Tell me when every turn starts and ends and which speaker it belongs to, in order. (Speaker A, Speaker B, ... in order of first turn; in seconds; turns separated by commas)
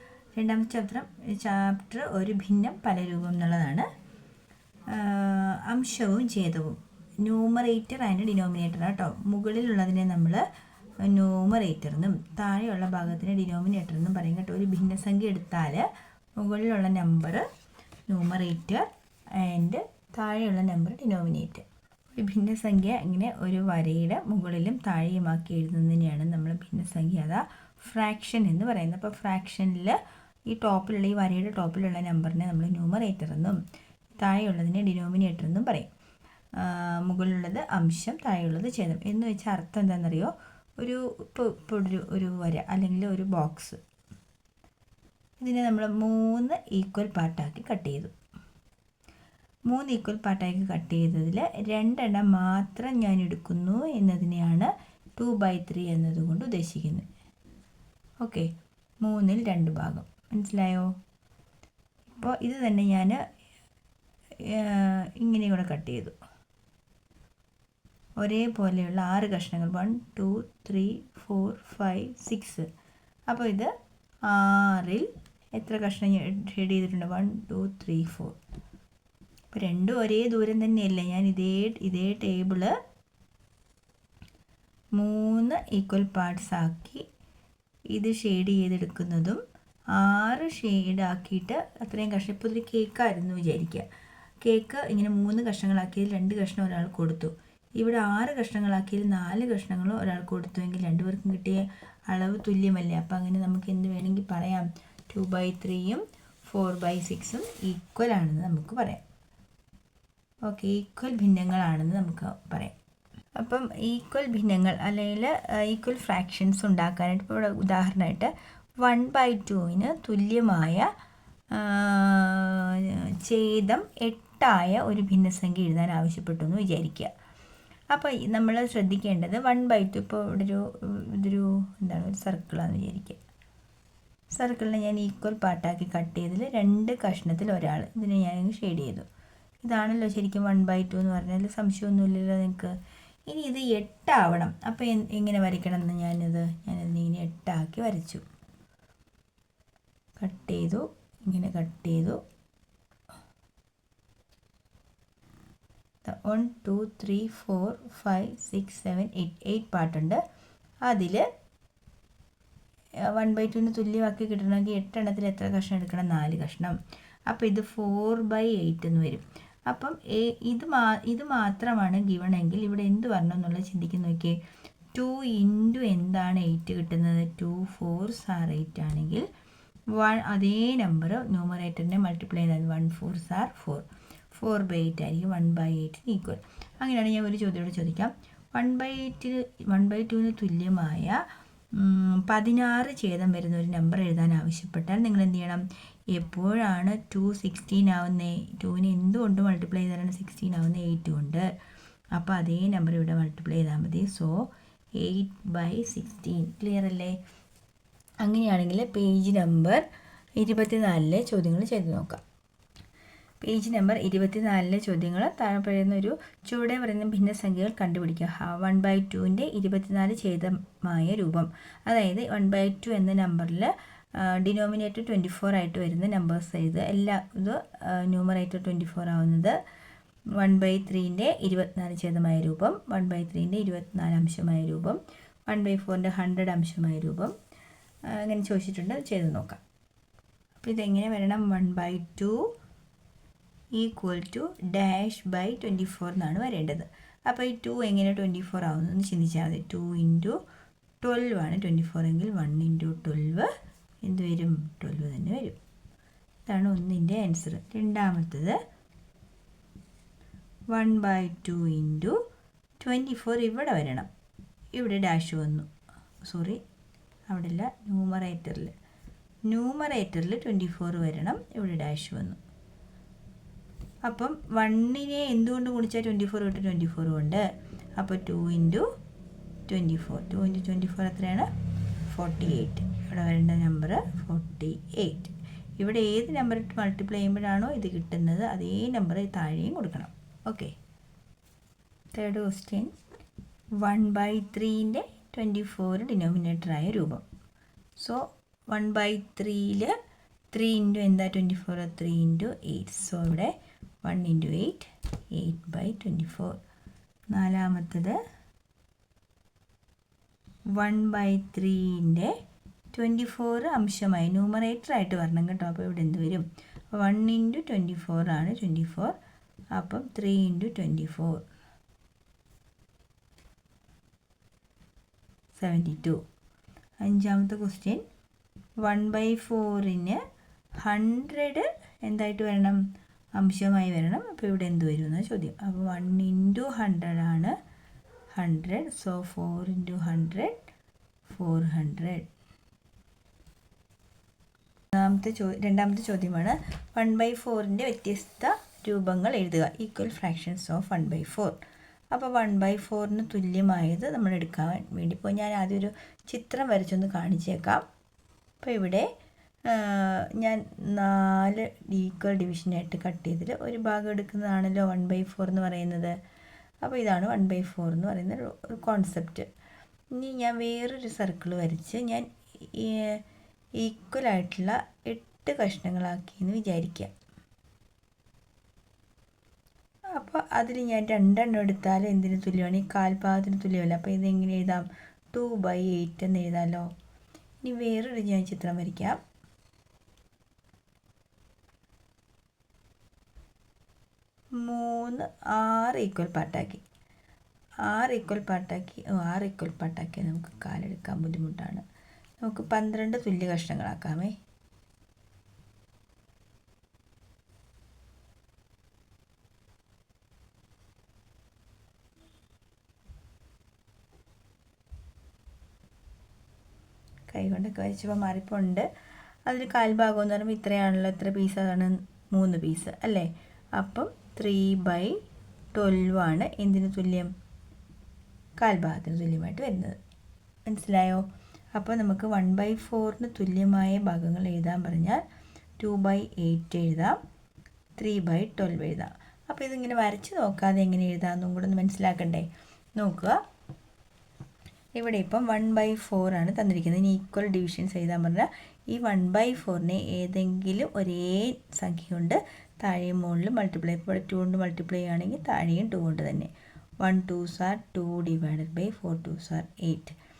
Speaker A: 0.4-3.9, Speaker A: 4.9-10.4, Speaker A: 11.0-15.9, Speaker A: 16.4-17.5, Speaker A: 18.1-21.6, Speaker A: 22.2-30.0, Speaker A: 30.5-33.6, Speaker A: 34.2-35.9, Speaker A: 36.6-43.8, Speaker A: 45.4-48.1, Speaker A: 49.7-57.1, Speaker A: 58.2-58.5, Speaker A: 59.0-60.9, Speaker A: 62.1-63.2, Speaker A: 64.4-66.2, Speaker A: 68.2-72.7, Speaker A: 73.3-73.7, Speaker A: 74.3-78.4, Speaker A: 79.5-82.8, Speaker A: 85.0-87.0, Speaker A: 87.9-89.4, Speaker A: 89.9-93.9, Speaker A: 94.4-109.0, Speaker A: 110.5-112.7, Speaker A: 113.4-118.3, Speaker A: 118.8-120.9, Speaker A: 121.5-127.1, Speaker A: 127.9-133.2, Speaker A: 134.3-139.1, Speaker A: 139.6-142.8, Speaker A: 143.3-148.2, Speaker A: 150.2-152.2, Speaker A: 156.1-160.2, Speaker A: 160.9-161.2, Speaker A: 163.1-166.8, Speaker A: 167.3-174.4, Speaker A: 174.9-179.3, Speaker A: 179.9-191.2, Speaker A: 191.8-201.5, Speaker A: 202.2-204.4, Speaker A: 205.0-207.2, Speaker A: 208.2-209.8, Speaker A: 210.4-212.2, Speaker A: 213.4-229.6, Speaker A: 230.4-237.3, Speaker A: 238.1-239.6, Speaker A: 240.6-242.4, Speaker A: 243.7-250.4, Speaker A: 251.0-253.5, Speaker A: 254.0-255.6, Speaker A: 256.5-258.6, Speaker A: 260.7-262.2, Speaker A: 262.8-264.1, Speaker A: 264.8-265.7, Speaker A: 266.2-266.6, Speaker A: 267.3-268.7, Speaker A: 269.5-272.4, Speaker A: 274.1-277.4, Speaker A: 278.0-278.9, Speaker A: 279.7-281.5, Speaker A: 282.1-290.8, Speaker A: 292.1-292.9, Speaker A: 293.8-297.2, Speaker A: 298.0-300.0, Speaker A: 300.5-306.6, Speaker A: 307.3-308.2, Speaker A: 310.7-312.4, Speaker A: 312.9-319.2, Speaker A: 319.8-321.4, Speaker A: 325.6-326.2, Speaker A: 327.0-328.0, Speaker A: 328.8-330.2, Speaker A: 330.8-332.8, Speaker A: 333.4-337.6, Speaker A: 338.3-340.6, Speaker A: 341.3-342.3, Speaker A: 344.9-351.6, Speaker A: 352.1-357.8, Speaker A: 358.6-359.1, Speaker A: 359.7-366.2, Speaker A: 366.8-369.5, Speaker A: 370.1-373.2, Speaker A: 373.8-377.1, Speaker A: 380.1-386.9, Speaker A: 387.6-389.2, Speaker A: 394.6-396.8, Speaker A: 397.9-401.8, Speaker A: 402.4-404.4, Speaker A: 417.3-418.9, Speaker A: 419.5-425.2, Speaker A: 425.7-427.3, Speaker A: 428.6-430.0, Speaker A: 430.7-435.2, Speaker A: 435.8-437.2, Speaker A: 438.0-443.4, Speaker A: 445.0-456.5, Speaker A: 457.0-460.2